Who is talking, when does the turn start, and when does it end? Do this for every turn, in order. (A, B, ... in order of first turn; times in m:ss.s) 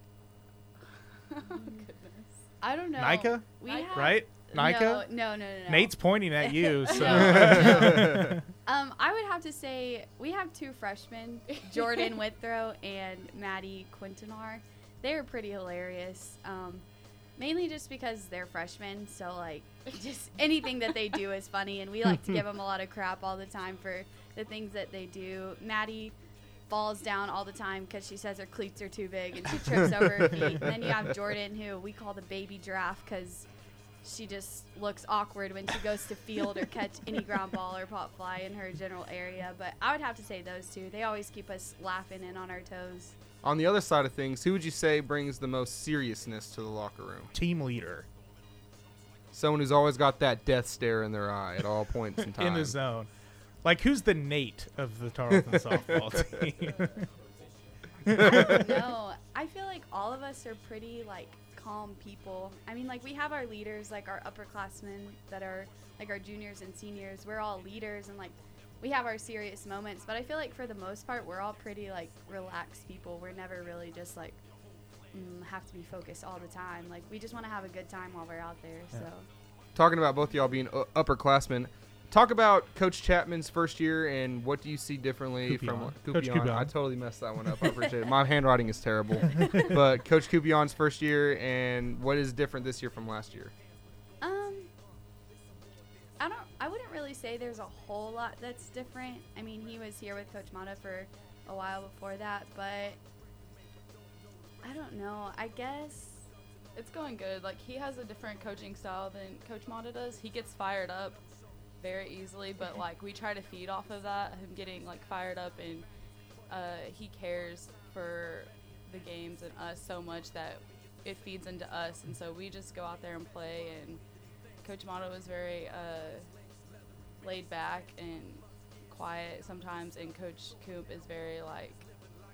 0:01.3-0:02.4 A
0:01.4-0:01.8 B
0:02.6-0:08.1 B
0:03.0-0:05.1 C
0:03.6-0:04.2 A
0:05.7-0:08.5 C
0:07.0-0:08.4 D
0:08.7-0:16.8 B
0:11.5-0:12.2 A
0:17.4-0:26.2 B
0:26.7-0:33.5 B
0:34.0-0:43.2 B
0:43.4-0:47.3 D
0:47.3-0:48.1 C
0:49.3-0:52.7 D
0:52.4-0:53.1 C
0:53.6-0:57.1 C
0:55.4-0:56.2 D
0:58.1-0:58.6 C
0:58.1-0:58.6 D
0:58.2-1:14.4 B
1:15.1-1:19.3 B
1:19.8-1:33.5 D
1:25.5-1:26.7 C
1:29.4-1:29.7 B
1:34.2-1:34.7 B
1:36.2-1:43.0 B
1:44.6-1:46.3 B
1:46.8-1:51.2 A
1:51.8-1:55.9 A
1:56.5-2:04.0 A
2:04.6-2:06.3 A
2:07.2-2:11.9 A